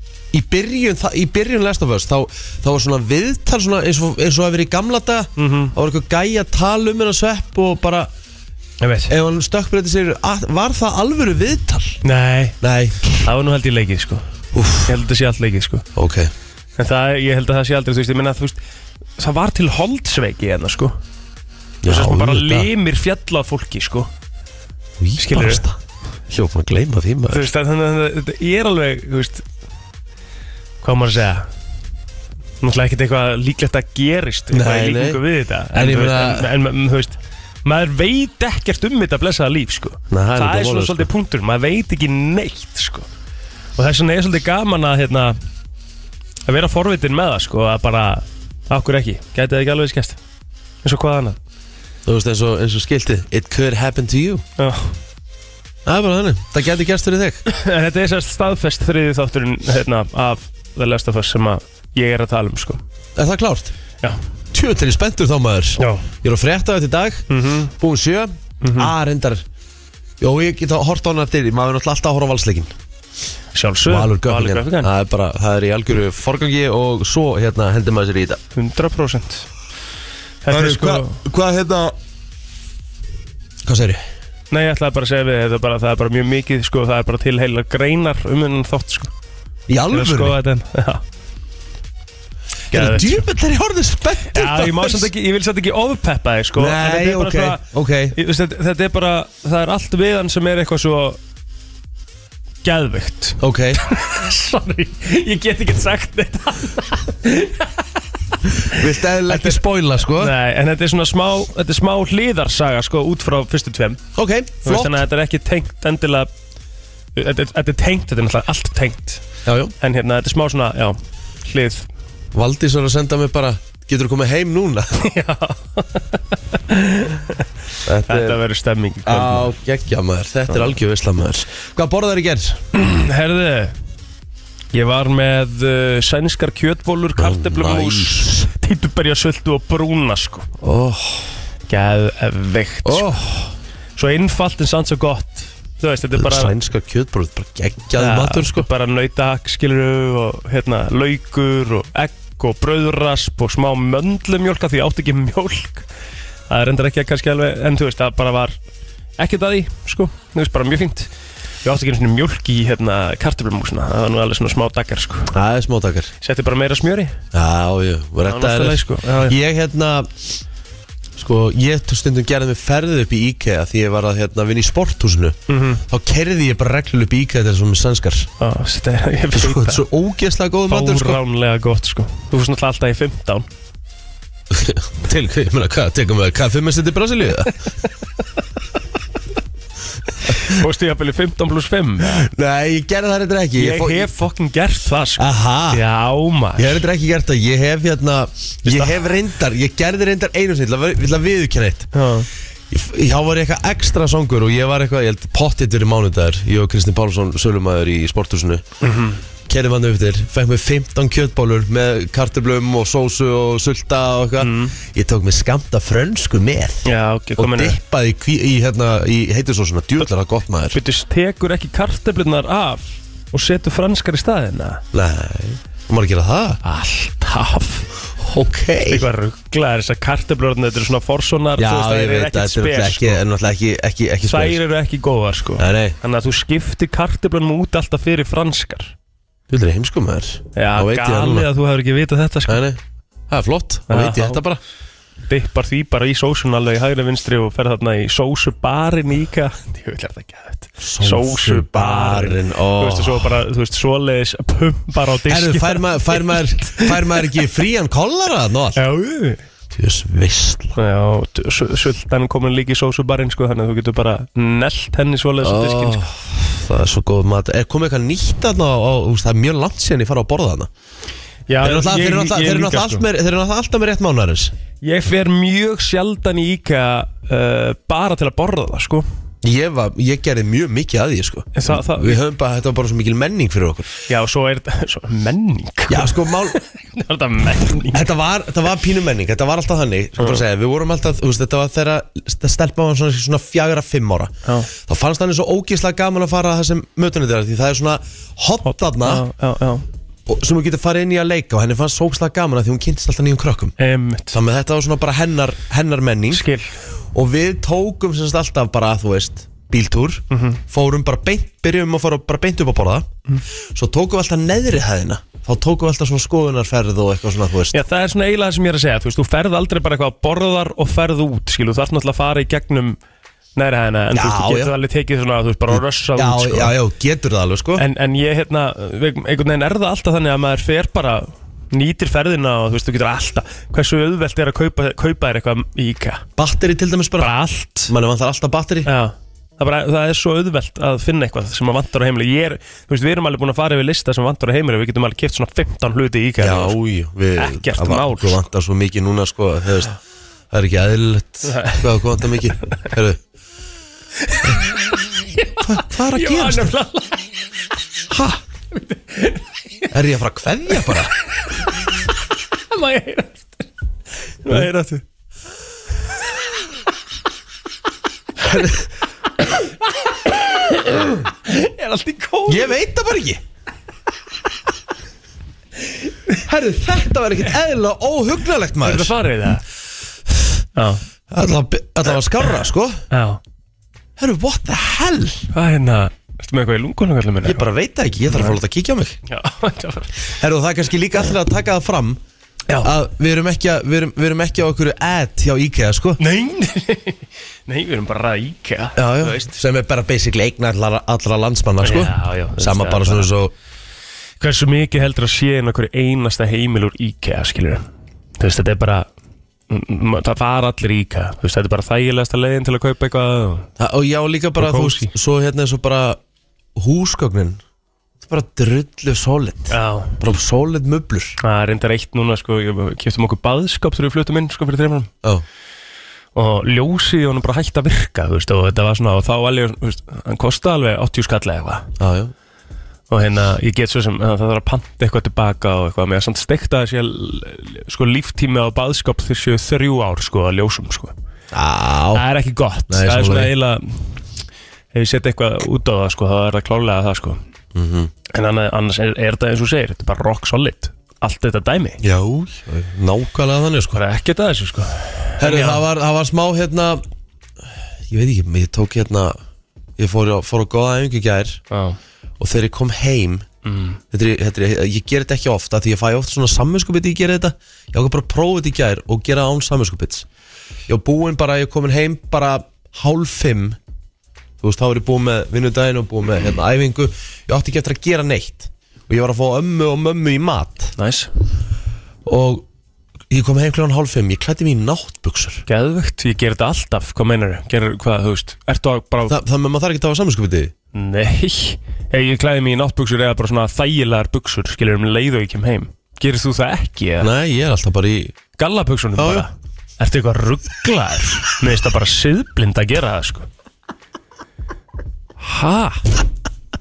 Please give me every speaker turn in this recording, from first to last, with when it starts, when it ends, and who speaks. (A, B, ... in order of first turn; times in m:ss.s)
0:00.3-0:08.1 A
0:05.4-0:05.7 B
0:08.8-0:09.1 B
0:09.1-0:12.0 A
0:12.0-0:12.6 B
0:12.6-0:13.2 A
0:13.2-0:14.2 B
0:14.5-0:15.0 A
0:14.8-0:15.8 B
0:15.9-0:16.3 A
0:16.8-0:18.6 B
0:19.2-0:21.0 B
0:21.8-0:22.7 A
0:21.8-0:24.1 B
0:25.0-0:25.8 A
0:25.2-0:25.6 B
0:26.3-0:27.5 A
0:27.3-0:29.4 B
0:30.8-0:31.5 B
0:32.6-0:43.1 B
0:34.5-0:36.5 A
0:40.1-0:41.1 A
0:43.8-0:45.4 B
0:46.4-0:50.2 B
0:50.8-0:51.4 B
0:52.0-0:54.4 A
0:54.6-0:55.0 B
0:55.8-0:57.4 A
0:57.5-1:02.8 B
1:03.2-1:03.7 A
1:04.5-1:09.4 A
1:05.8-1:06.1 B
1:07.3-1:07.7 B
1:08.6-1:08.9 B
1:10.2-1:12.7 A
1:13.5-1:14.9 B
1:13.8-1:18.4 A
1:18.5-1:19.4 B
1:20.4-1:21.2 B
1:20.5-1:22.0 A
1:23.6-1:24.0 A
1:24.5-1:29.1 B
1:29.7-1:30.4 A
1:29.9-1:31.0 B
1:32.7-1:35.1 A
1:32.7-1:33.2 B
1:34.3-1:41.2 B
1:36.6-1:38.2 A
1:42.6-1:47.8 B
1:43.4-1:43.8 A
1:48.5-1:49.6 B
1:48.7-1:50.3 A
1:50.2-1:54.0 B
1:54.1-1:54.9 A
1:54.6-1:56.3 B
1:57.2-1:59.2 B
1:59.4-1:59.7 A
1:59.8-2:01.9 B
2:02.3-2:05.0 A
2:05.0-2:07.5 B
2:07.8-2:08.4 A
2:08.0-2:09.5 B
2:09.0-2:12.6 A
2:12.7-2:13.8 B
2:14.7-2:20.5 B
2:17.2-2:18.5 A
2:20.6-2:21.3 A
2:21.7-2:23.1 B
2:22.8-2:23.5 A
2:24.0-2:26.5 B
2:26.1-2:28.7 A
2:27.9-2:35.8 B
2:36.5-2:38.5 B
2:39.2-2:41.1 B
2:41.6-2:45.3 B
2:45.3-2:46.1 A
2:46.2-2:47.2 B
2:47.3-2:50.1 A
2:48.3-2:49.4 B
2:51.2-2:58.3 A
2:55.5-2:55.8 B
2:58.4-2:59.8 B
2:59.3-3:01.2 A
3:00.7-3:03.5 B
3:04.5-3:07.5 A
3:10.3-3:12.2 B
3:12.0-3:14.1 A
3:13.6-3:16.8 B
3:15.2-3:15.8 A
3:16.6-3:21.9 A
3:18.6-3:19.0 B
3:21.9-3:22.3 B
3:22.7-3:28.6 A
3:28.8-3:29.2 B
3:29.5-3:40.8 A
3:34.4-3:34.8 B
3:36.8-3:37.8 B
3:40.7-3:44.8 B
3:44.9-3:46.6 A
3:46.6-3:47.9 B
3:48.2-3:49.1 A
3:48.8-3:53.2 B
3:51.6-3:54.6 A
3:54.2-3:58.9 B
3:55.6-3:56.0 A
3:59.5-4:01.5 A
4:00.5-4:02.6 B
4:02.5-4:04.6 A
4:03.9-4:04.4 B
4:05.3-4:17.3 B
4:10.8-4:13.4 A
4:15.3-4:18.8 A
4:18.8-4:19.4 B
4:19.7-4:20.8 A
4:20.8-4:26.0 B
4:25.4-4:30.7 A
4:31.5-4:33.0 B
4:31.6-4:34.5 A
4:34.8-4:39.1 B
4:39.4-4:43.9 A
4:41.5-4:42.2 B
4:44.1-4:48.0 B
4:45.9-4:46.6 A
4:47.9-4:59.2 A
4:50.2-4:50.4 B
4:54.4-4:54.7 B
4:58.7-4:59.8 B
5:00.3-5:03.7 A
5:03.8-5:04.4 B
5:04.3-5:06.4 A
5:06.3-5:06.7 B
5:07.1-5:13.1 A
5:10.3-5:10.6 B
5:13.7-5:17.8 A
5:17.7-5:23.0 B
5:23.6-5:26.7 B
5:24.1-5:24.7 A
5:25.7-5:27.8 A
5:27.8-5:36.2 B
5:36.4-5:37.3 A
5:37.2-5:37.9 B
5:37.9-5:38.9 A
5:38.8-5:46.8 B
5:46.4-5:50.0 A
5:47.4-5:48.4 B
5:50.5-5:53.2 A
5:51.4-5:51.9 B
5:54.2-5:57.3 B
5:55.6-5:56.7 A
5:58.1-5:58.4 A
5:58.7-5:59.9 B
5:59.9-6:01.1 A
6:00.7-6:01.0 B
6:02.7-6:03.7 B
6:04.4-6:05.0 B
6:08.4-6:08.9 A
6:10.2-6:12.7 B
6:10.9-6:11.1 A
6:12.5-6:13.4 A
6:16.4-6:19.1 A
6:18.8-6:19.6 B
6:20.8-6:21.0 B
6:21.3-6:23.0 A
6:23.1-6:23.4 B
6:24.2-6:25.5 A
6:25.5-6:27.6 B
6:27.4-6:29.2 A
6:28.3-6:28.6 B
6:29.2-6:30.3 B
6:30.4-6:32.2 A
6:32.8-6:36.2 A
6:36.2-6:39.5 B
6:39.0-6:43.5 A
6:41.8-6:43.3 B
6:44.4-6:47.8 B
6:48.4-6:49.1 B
6:49.7-6:53.7 B
6:53.8-6:56.2 A
6:54.6-6:55.1 B
6:56.7-6:57.6 A
6:58.2-7:01.4 A
6:59.7-7:00.2 B
7:01.4-7:05.1 B
7:06.3-7:11.9 B
7:12.0-7:12.3 A
7:13.1-7:21.1 B
7:21.5-7:22.2 A
7:22.1-7:24.2 B
7:22.9-7:23.5 A
7:24.9-7:27.4 B
7:27.7-7:28.1 A
7:28.3-7:32.0 B
7:32.0-7:34.0 A
7:33.9-7:35.8 B
7:35.4-7:37.0 A
7:38.1-7:39.4 A
7:40.0-7:41.6 A
7:41.7-7:42.0 B
7:42.4-7:43.5 A
7:43.6-7:44.0 B
7:44.1-7:50.3 A
7:50.9-7:53.8 A
7:54.6-8:00.9 A
8:01.0-8:01.3 B
8:02.2-8:02.6 A
8:03.3-8:05.6 A
8:05.7-8:09.4 B
8:09.3-8:10.7 A
8:10.9-8:17.3 B
8:17.2-8:18.4 A
8:18.6-8:23.5 B
8:19.2-8:19.4 A
8:25.4-8:26.1 B